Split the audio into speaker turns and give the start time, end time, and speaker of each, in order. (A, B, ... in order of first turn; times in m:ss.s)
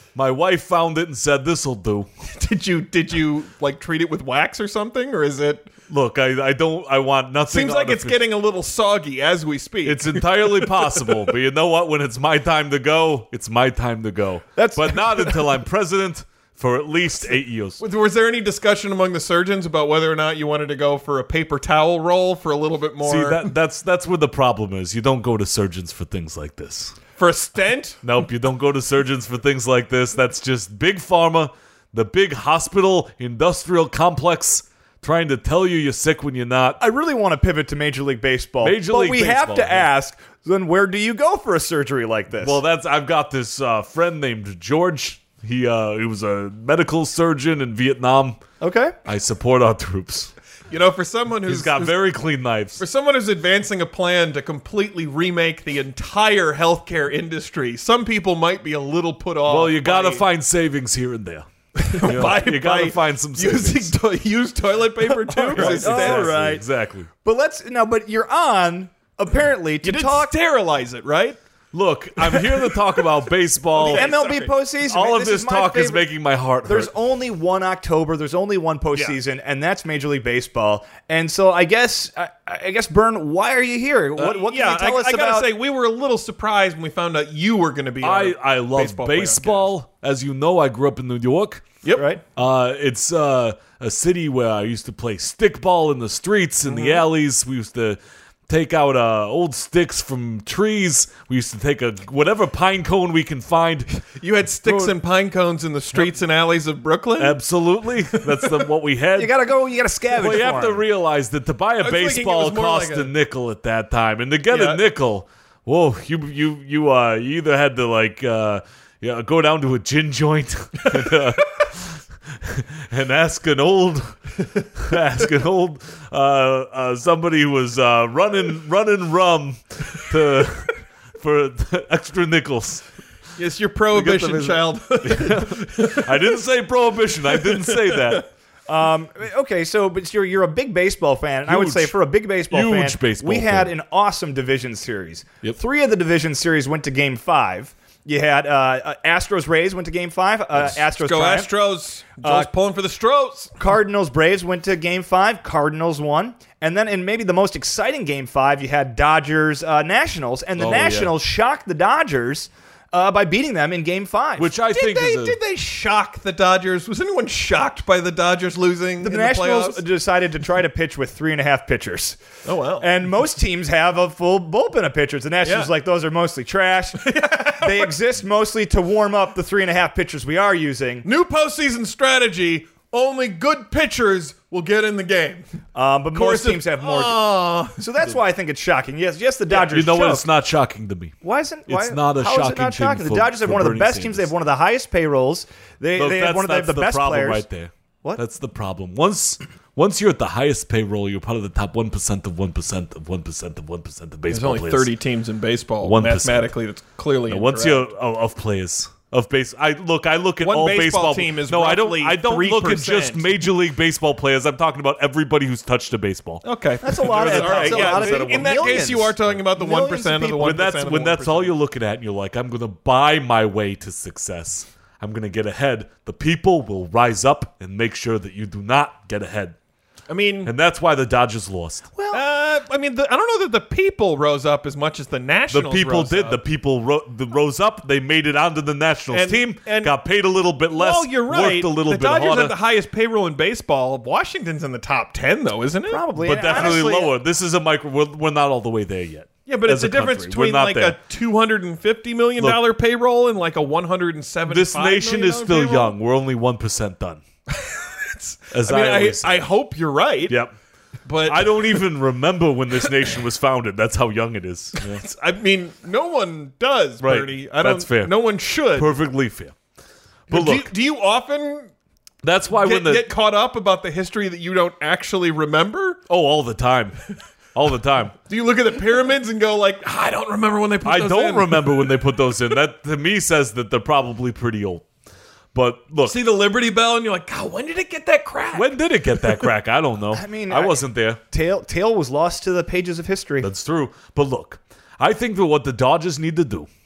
0:00.1-0:02.1 A
0:02.3-0:05.7 B
0:05.9-0:08.2 A
0:07.5-0:11.1 B
0:09.8-0:17.8 A
0:14.6-0:15.4 C
0:17.8-0:23.5 B
0:23.0-0:27.0 A
0:27.2-0:28.0 B
0:28.0-0:36.8 A
0:36.8-0:42.6 C
0:38.6-0:39.9 A
0:42.4-0:48.4 A
0:48.6-0:49.0 C
0:49.0-0:50.3 A
0:50.7-0:52.0 B
0:51.5-0:52.8 A
0:52.8-1:00.2 B
0:59.5-1:03.9 A
1:01.7-1:06.3 B
1:05.3-1:06.6 C
1:05.5-1:07.1 A
1:07.2-1:10.3 C
1:09.8-1:11.4 B
1:11.7-1:14.1 A
1:12.2-1:13.1 B
1:13.7-1:14.5 B
1:13.8-1:16.1 C
1:14.8-1:16.9 A
1:16.6-1:25.5 C
1:24.2-1:29.7 B
1:28.0-1:31.6 A
1:32.0-1:32.2 C
1:32.3-1:44.0 A
1:36.6-1:37.0 B
1:44.2-1:47.4 B
1:44.6-1:44.9 A
1:47.2-1:49.3 A
1:48.1-1:48.6 B
1:49.2-1:50.8 C
1:50.1-2:12.8 A
1:51.8-1:53.1 B
1:54.5-1:54.8 B
2:13.4-2:16.4 B
2:13.9-2:18.3 A
2:17.3-2:18.2 B
2:18.7-2:31.5 C
2:21.5-2:21.9 A
2:22.5-2:23.7 A
2:30.9-2:33.6 B
2:32.2-2:32.5 C
2:33.6-2:44.5 C
2:40.6-2:41.1 A
2:44.4-2:45.4 A
2:44.7-2:49.8 B
2:49.0-2:52.2 C
2:52.4-2:52.9 B
2:52.8-3:01.0 C
2:55.4-2:55.7 B
2:57.0-2:57.9 B
3:01.0-3:05.4 B
3:05.7-3:10.2 C
3:06.1-3:07.8 B
3:09.6-3:11.1 A
3:11.2-3:17.4 C
3:11.7-3:14.3 A
3:16.0-3:24.9 A
3:24.3-3:27.9 B
3:25.8-3:26.5 A
3:27.3-3:39.1 A
3:30.4-3:33.3 B
3:36.4-3:41.5 B
3:36.8-3:40.6 C
3:40.4-3:49.6 A
3:50.1-3:50.5 B
3:50.4-3:51.9 A
3:52.0-3:52.2 C
3:52.1-3:56.4 B
3:55.5-4:02.6 A
3:59.1-3:59.9 B
4:00.7-4:06.9 B
4:05.9-4:07.2 C
4:06.2-4:11.0 A
4:09.5-4:15.9 B
4:14.5-4:17.2 A
4:17.5-4:20.4 B
4:18.5-4:19.5 A
4:20.3-4:20.5 A
4:21.0-4:21.8 B
4:21.2-4:25.0 A
4:24.8-4:28.9 B
4:27.0-4:29.5 A
4:30.3-4:30.7 A
4:30.3-4:31.7 B
4:32.2-4:33.1 A
4:32.5-4:36.0 B
4:36.1-4:37.0 A
4:37.5-4:38.1 A
4:38.2-4:42.2 B
4:40.8-4:44.8 A
4:45.5-4:46.2 A
4:46.0-4:49.5 B
4:48.5-4:51.2 A
4:50.1-4:53.5 C
4:53.4-4:56.7 A